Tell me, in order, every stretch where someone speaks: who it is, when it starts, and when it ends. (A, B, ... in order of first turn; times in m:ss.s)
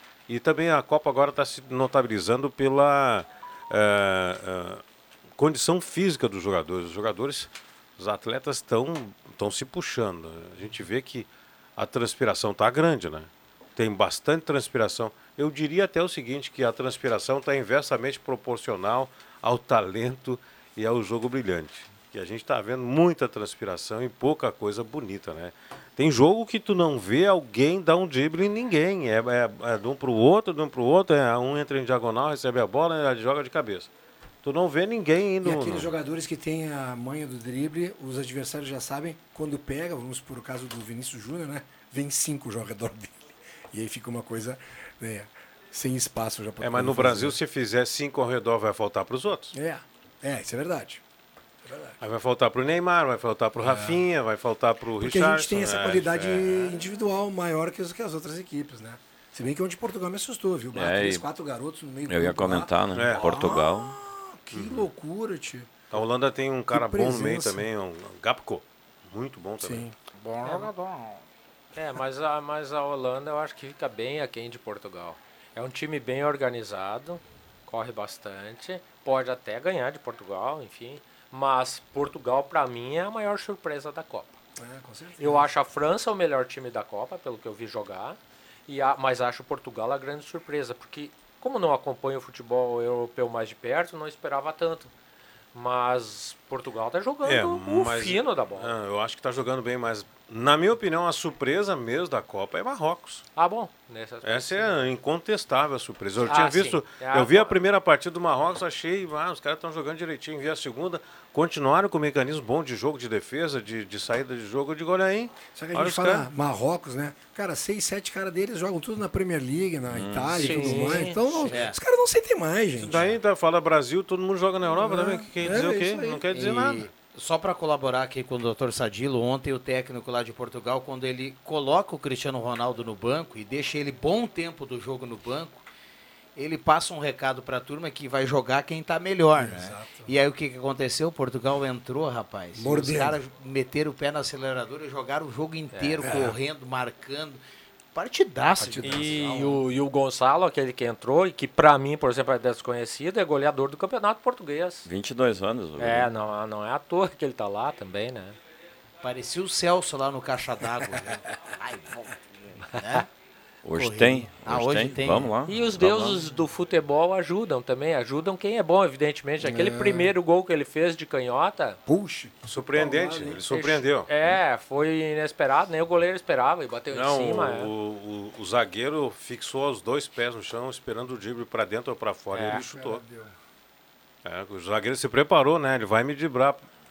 0:00.3-0:04.8 A
0:05.4-0:33.9 A
0:34.4-0:35.9 A
0:35.4-0:47.4 B
0:46.6-0:49.5 A
0:49.5-0:51.0 B
0:51.6-0:52.0 B
0:52.0-0:56.8 A
0:53.6-0:54.0 B
0:55.0-1:05.8 B
1:00.7-1:01.3 C
1:02.1-1:03.9 C
1:03.0-1:03.2 A
1:04.5-1:04.9 A
1:05.9-1:09.9 A
1:06.7-1:07.6 B
1:09.6-1:09.9 B
1:10.3-1:11.0 D
1:10.4-1:10.7 E
1:11.7-1:24.4 E
1:24.6-1:25.5 B
1:25.2-1:34.9 E
1:35.5-1:38.7 E
1:37.2-1:43.2 A
1:43.3-1:44.9 E
1:44.2-1:56.3 A
1:46.2-1:47.6 E
1:55.5-2:03.1 B
1:59.9-2:00.8 C
2:00.3-2:01.6 E
2:02.8-2:06.9 A
2:04.6-2:06.2 B
2:06.3-2:15.6 D
2:16.4-2:27.4 D
2:19.4-2:20.1 B
2:22.5-2:23.2 B
2:25.7-2:26.0 E
2:26.0-2:26.4 B
2:27.9-2:29.6 D
2:28.6-2:29.2 B
2:28.8-2:34.8 E
2:34.8-2:36.1 C
2:35.8-2:38.4 E
2:39.0-2:43.0 D
2:43.6-2:46.3 C
2:43.7-2:45.3 D
2:45.4-2:51.8 E
2:49.4-2:50.1 B
2:51.8-2:53.5 B
2:52.5-2:54.4 A
2:53.5-2:57.7 E
2:56.9-3:03.0 A
3:02.3-3:02.6 E
3:02.5-3:03.3 B
3:04.2-3:06.6 A